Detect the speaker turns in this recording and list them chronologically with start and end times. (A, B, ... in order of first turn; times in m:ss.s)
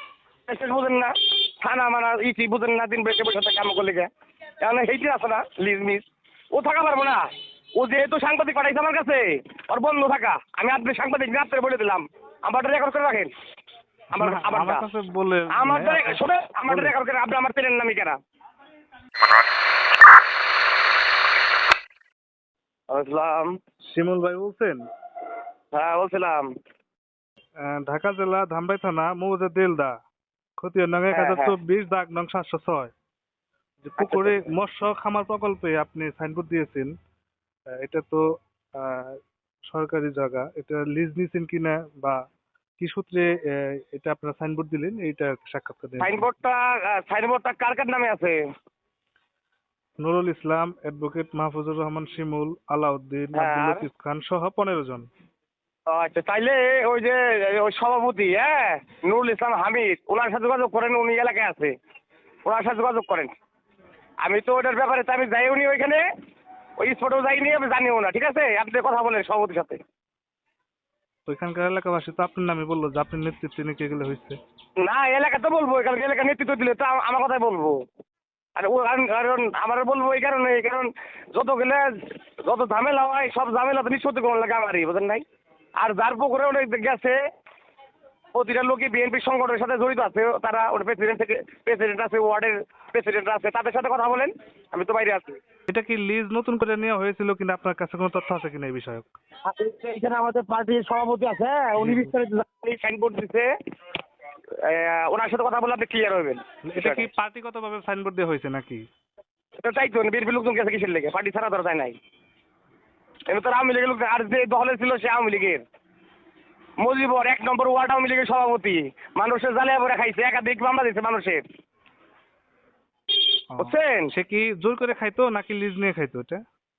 0:00.5-0:04.1 A
0:04.6-0:07.2 A
0:07.8-0:13.3 A
0:14.1-0:14.9 A
0:14.2-0:16.9 B
0:15.5-0:18.2 A
0:22.9-0:23.5 A
0:23.9-0:24.8 B
0:25.7-0:26.5 A
0:27.6-0:30.0 B
0:30.6-0:32.9 B
0:31.1-0:31.5 A
0:33.8-0:36.9 B
0:34.0-0:34.5 A
0:37.8-0:42.2 B
0:42.8-0:46.2 B
0:46.0-0:48.4 A
0:50.0-0:55.1 B
0:53.3-0:53.8 A
0:55.9-1:01.7 A
1:02.4-1:03.3 A
1:04.2-1:06.0 A
1:06.8-1:09.8 A
1:11.3-1:14.4 B
1:14.8-1:17.8 A
1:18.6-1:25.2 A
1:25.8-1:27.2 A
1:28.3-1:35.4 A
1:35.7-1:39.1 B
1:39.5-1:43.5 A
1:41.8-1:42.1 B
1:44.6-1:47.1 A
1:46.6-1:48.8 B
1:49.6-1:52.0 A
1:53.3-1:55.6 A
1:56.8-2:01.4 A
2:03.5-2:06.4 B
2:03.6-2:04.1 A